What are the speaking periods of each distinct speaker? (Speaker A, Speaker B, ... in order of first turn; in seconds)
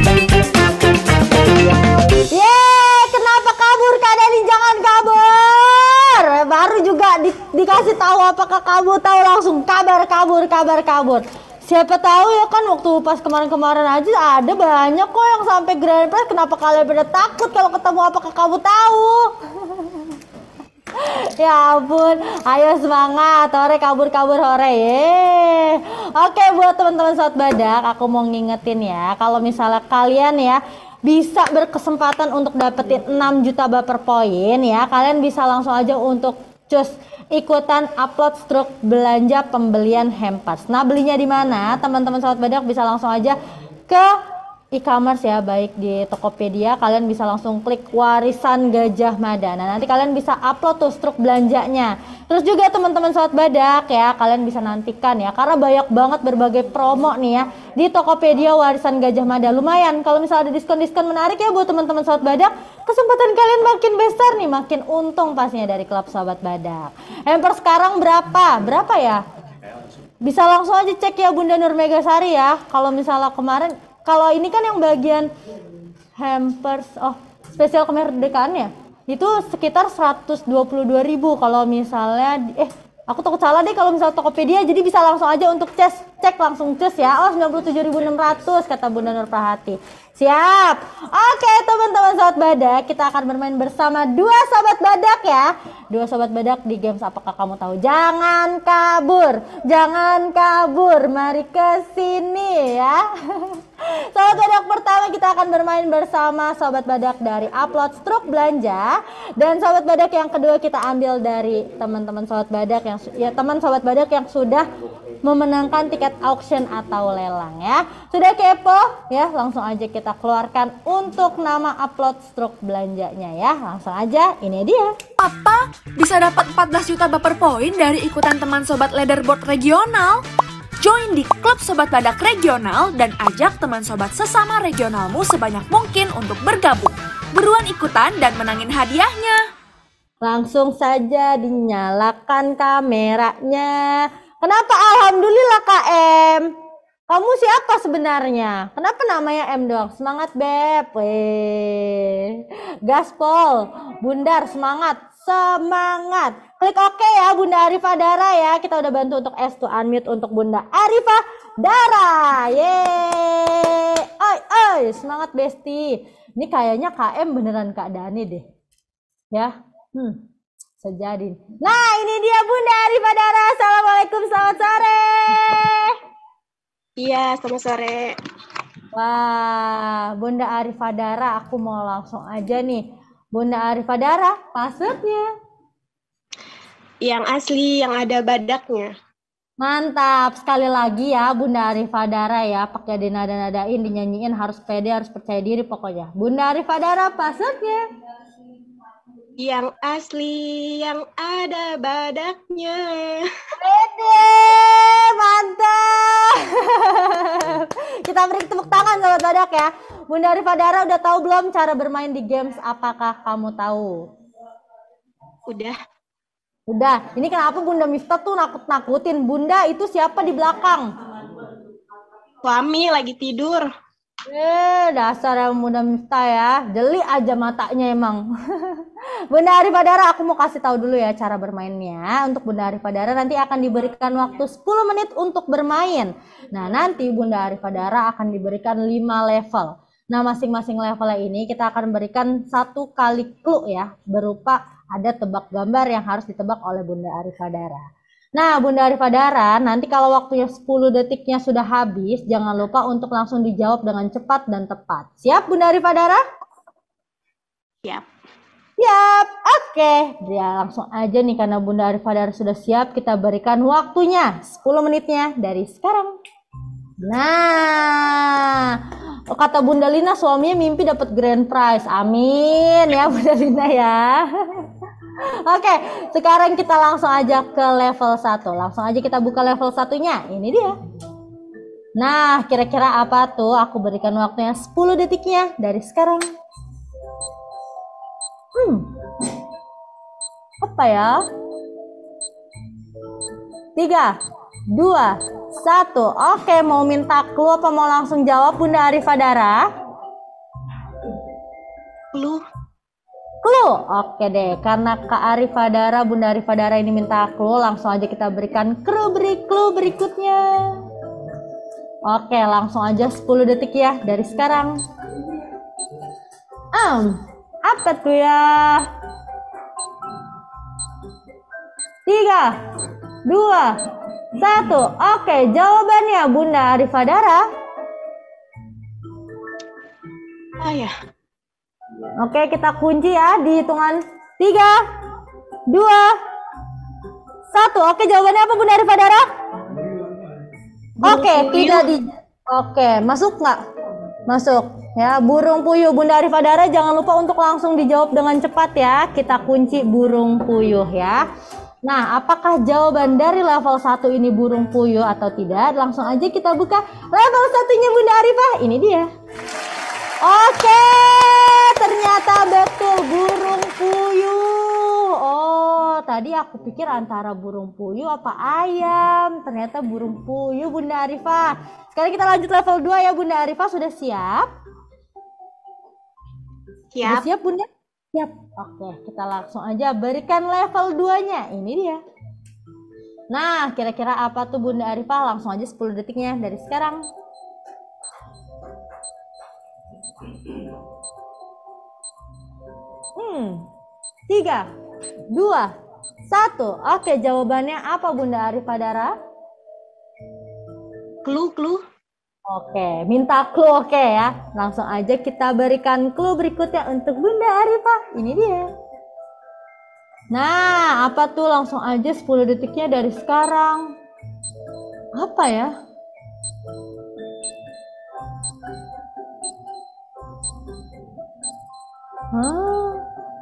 Speaker A: 2.3-20.1, 21.0-43.4, 44.7-69.2, 70.2-75.3, 76.2-114.6, 115.2-124.9, 140.2-146.5, 147.1-168.4, 169.3-170.2, 170.8-175.9, 178.9-185.2, 189.6-197.8, 203.6-214.0, 216.7-220.9, 224.3-247.8, 248.4-256.2, 258.8-266.1, 267.0-268.8, 269.3-274.7, 275.4-280.7, 282.0-286.2, 288.6-288.9, 290.6-291.1, 293.8-294.1, 294.7-299.6, 303.4-310.7, 312.1-314.8, 316.7-318.9, 322.1-322.5, 323.2-323.7, 324.4-327.4, 332.2-334.7, 335.7-336.1, 337.5-339.2, 341.0-343.6, 344.3-351.2, 351.8-359.1, 360.2-374.5, 377.0-382.0, 383.3-387.0, 393.1-393.6, 394.3-394.6, 395.3-395.7, 396.3-399.1, 402.5-408.7, 410.3-413.9, 415.2-415.7, 422.3-423.0
Speaker B: 125.2-130.2, 130.8-139.4
Speaker C: 177.0-178.1, 187.0-188.9, 199.4-203.2, 215.5-215.8, 222.4-223.7, 302.1-302.4, 330.6-330.9, 341.0-341.9, 376.9-377.3, 401.2-401.8